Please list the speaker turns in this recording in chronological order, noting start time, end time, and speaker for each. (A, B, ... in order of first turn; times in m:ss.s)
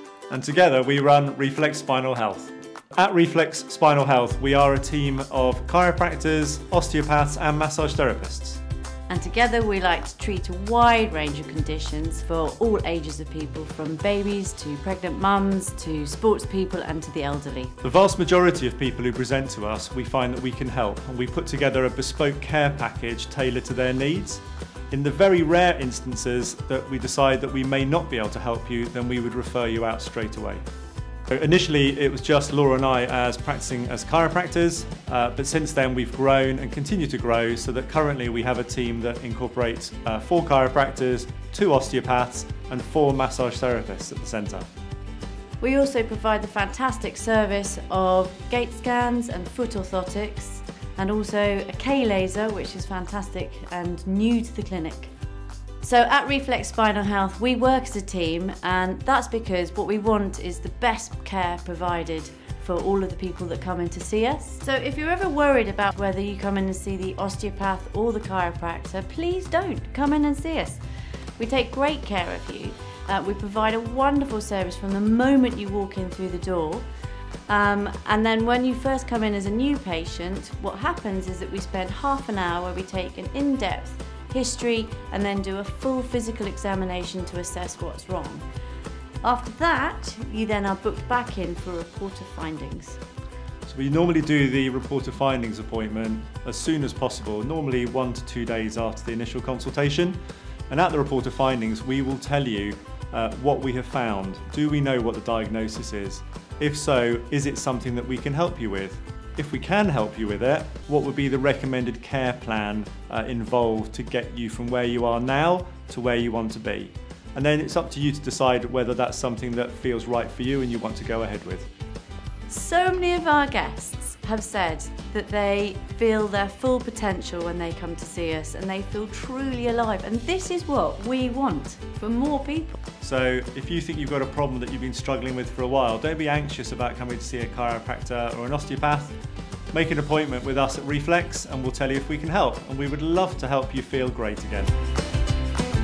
0:00.3-0:08.6 A
0:09.1-0:17.8 B
0:17.8-0:30.6 A
0:31.3-0:44.7 A
0:45.6-0:55.1 B
0:55.8-1:10.8 B
1:11.4-1:16.8 B
1:17.5-1:28.4 B
1:29.2-1:33.0 B
1:33.7-1:40.2 A
1:40.7-2:01.7 A
2:02.5-2:12.8 B
2:13.0-2:19.2 A
2:19.7-2:24.7 A